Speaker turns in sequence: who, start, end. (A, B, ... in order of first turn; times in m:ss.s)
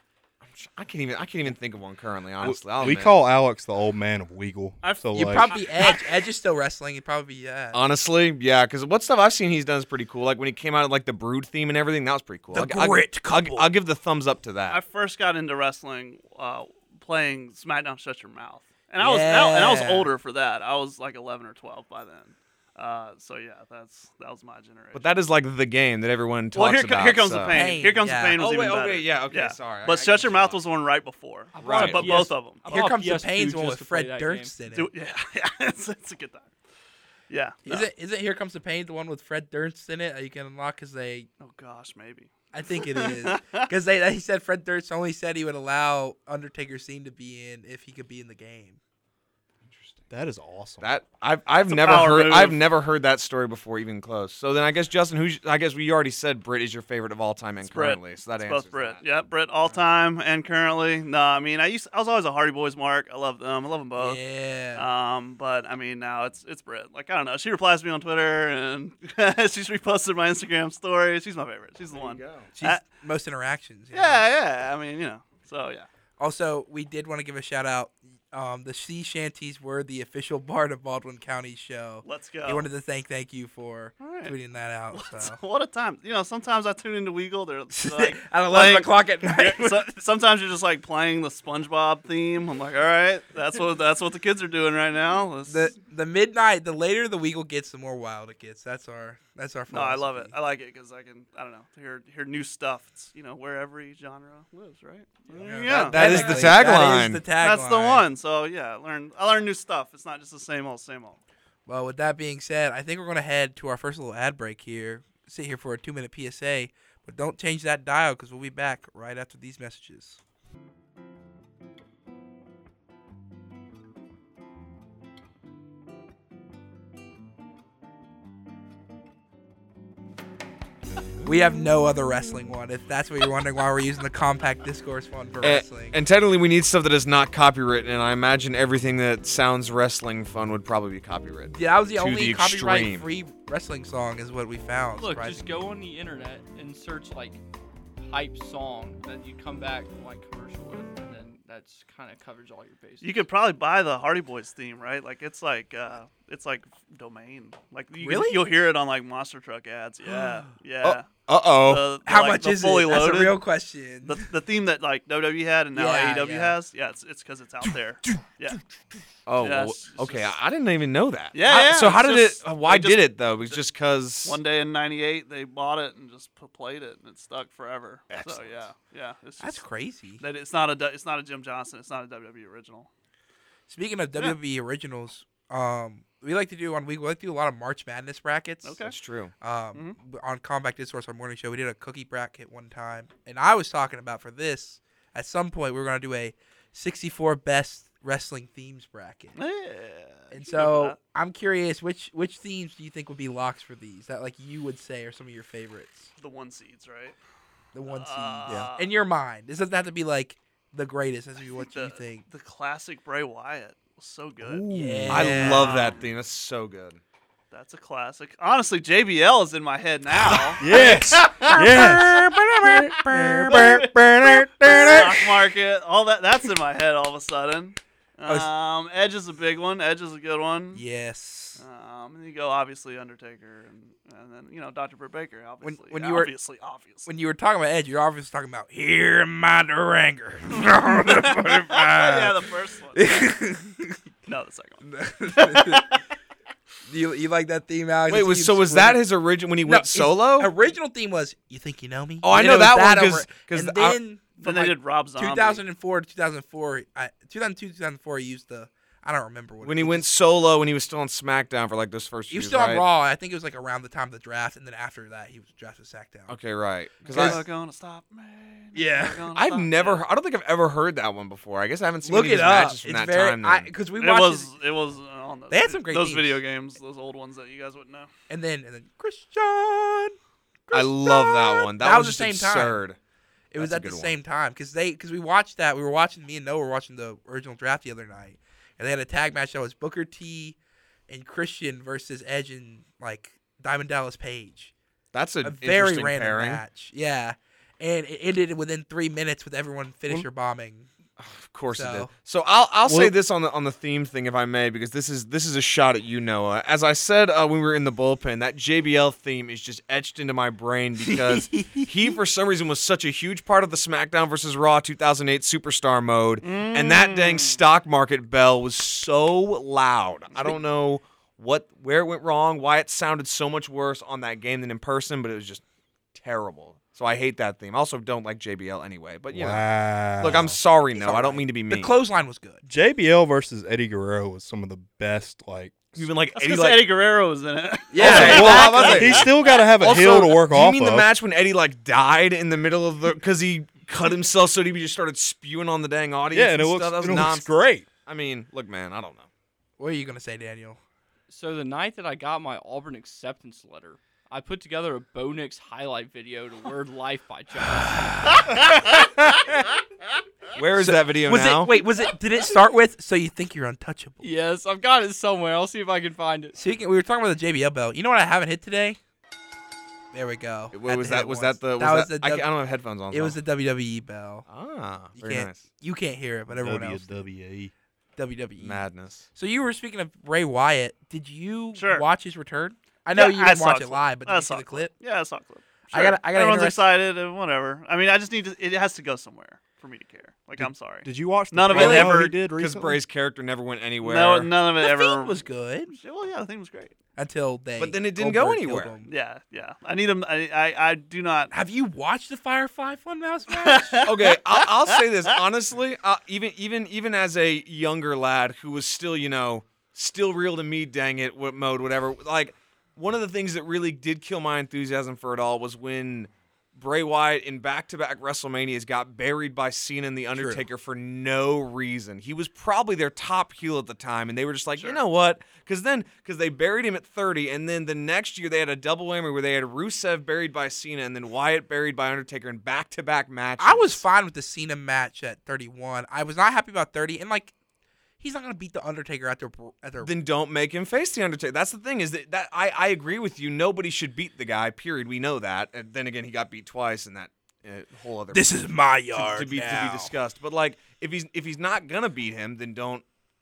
0:00.4-0:03.1 A
0:02.4-0:05.5 B
0:04.8-0:06.1 C
0:05.1-0:07.8 D
0:07.7-0:14.8 A
0:12.5-0:13.7 D
0:14.7-0:25.1 C
0:19.0-0:20.1 D
0:24.9-0:27.8 A
0:26.5-0:32.7 C
0:27.5-0:28.4 D
0:28.4-0:30.6 A
0:31.6-0:34.5 E
0:31.6-0:32.3 A
0:32.7-0:34.9 D
0:34.7-0:36.5 C
0:37.3-0:37.9 C
0:37.6-0:41.3 D
0:41.4-0:43.7 C
0:42.5-0:48.8 D
0:49.7-0:50.0 A
0:50.1-0:50.8 B
0:50.8-0:59.0 A
0:51.7-0:52.6 C
0:57.6-1:04.2 C
1:04.0-1:04.8 D
1:04.8-1:12.8 C
1:11.9-1:12.5 A
1:12.6-1:14.2 D
1:13.9-1:15.9 C
1:16.2-1:25.4 D
1:22.0-1:22.7 C
1:24.0-1:24.3 C
1:24.9-1:35.7 C
1:27.7-1:29.9 D
1:35.5-1:40.3 D
1:39.7-1:46.8 C
1:45.3-1:48.1 D
1:45.7-1:47.2 A
1:47.4-1:51.2 C
1:51.7-2:00.2 D
2:11.2-2:16.0 D
2:15.4-2:23.1 A
2:21.5-2:25.5 D
2:25.0-2:27.4 E
2:28.0-2:33.1 E
2:33.0-2:41.1 C
2:38.0-2:38.4 D
2:40.8-2:41.8 A
2:41.6-2:43.4 C
2:42.1-2:44.2 D
2:44.0-2:48.6 C
2:45.8-2:46.6 D
2:49.3-2:54.4 A
2:49.4-2:50.4 C
2:51.3-2:53.6 C
2:54.2-2:59.6 C
2:58.1-2:58.6 A
2:59.4-3:00.2 D
3:00.2-3:02.9 C
3:03.7-3:08.8 D
3:08.6-3:09.0 C
3:08.8-3:09.3 A
3:09.4-3:19.4 D
3:19.4-3:21.0 C
3:20.3-3:26.1 D
3:26.2-3:27.2 C
3:27.7-3:32.2 D
3:27.9-3:28.9 C
3:31.6-3:34.7 C
3:34.4-3:35.4 B
3:34.7-3:35.8 D
3:35.1-3:37.0 A
3:35.2-3:36.1 C
3:37.5-3:42.0 C
3:40.6-3:45.3 B
3:40.7-3:43.6 D
3:43.5-3:50.8 C
3:50.8-3:51.6 D
3:51.6-3:57.1 C
3:55.6-3:56.3 D
3:57.1-4:02.4 D
4:00.6-4:03.3 C
4:03.0-4:04.0 D
4:04.3-4:06.0 C
4:04.8-4:06.0 D
4:06.9-4:09.0 D
4:08.1-4:10.5 A
4:09.6-4:20.1 D
4:12.2-4:14.0 A
4:14.4-4:15.6 C
4:19.6-4:22.8 A
4:22.3-4:26.4 D
4:26.3-4:27.4 A
4:27.0-4:30.0 C
4:27.1-4:27.4 D
4:28.7-4:29.2 D
4:29.3-4:33.7 A
4:32.0-4:34.5 D
4:34.0-4:38.1 C
4:35.5-4:36.4 D
4:38.3-4:40.2 D
4:40.7-4:42.8 D
4:40.7-4:43.0 A
4:43.5-4:50.6 D
4:43.6-4:44.2 A
4:51.1-4:54.7 D
4:55.1-4:56.6 A
4:55.4-5:00.9 D
5:01.2-5:25.6 A
5:01.7-5:02.1 D
5:02.8-5:03.1 B
5:11.1-5:12.1 D
5:16.4-5:17.6 C
5:20.3-5:20.6 C
5:26.1-5:32.0 A
5:29.3-5:30.6 B
5:30.9-5:32.6 D
5:32.6-5:36.1 B
5:36.0-5:36.8 A
5:36.4-5:39.5 C
5:37.9-5:39.2 D
5:38.0-5:41.1 B
5:38.0-5:47.5 A
5:46.3-5:47.9 B
5:48.0-5:49.3 A
5:49.8-5:50.8 D
5:51.3-5:58.7 E
5:58.0-5:58.9 D
6:00.6-6:01.8 A
6:00.8-6:04.2 D
6:04.2-6:06.6 E
6:06.6-6:09.0 D
6:10.1-6:12.5 D
6:10.7-6:13.4 A
6:13.1-6:14.5 D
6:14.5-6:15.6 A
6:15.2-6:17.2 D
6:16.5-6:17.7 B
6:18.2-6:24.9 D
6:18.6-6:19.2 A
6:21.8-6:22.0 C
6:23.1-6:32.4 C
6:25.9-6:26.8 D
6:30.6-6:33.0 B
6:31.7-6:32.1 D
6:31.7-6:34.5 A
6:34.0-6:35.4 C
6:34.8-6:36.0 D
6:35.9-6:36.9 C
6:37.2-6:39.1 D
6:37.8-6:39.0 A
6:39.1-6:41.5 C
6:41.5-6:44.1 D
6:43.5-6:44.7 C
6:44.0-7:14.0 A
7:00.4-7:00.6 D
7:13.6-7:17.5 D
7:18.2-7:20.1 D
7:20.0-7:28.5 A
7:28.3-7:30.1 D
7:29.1-7:33.0 A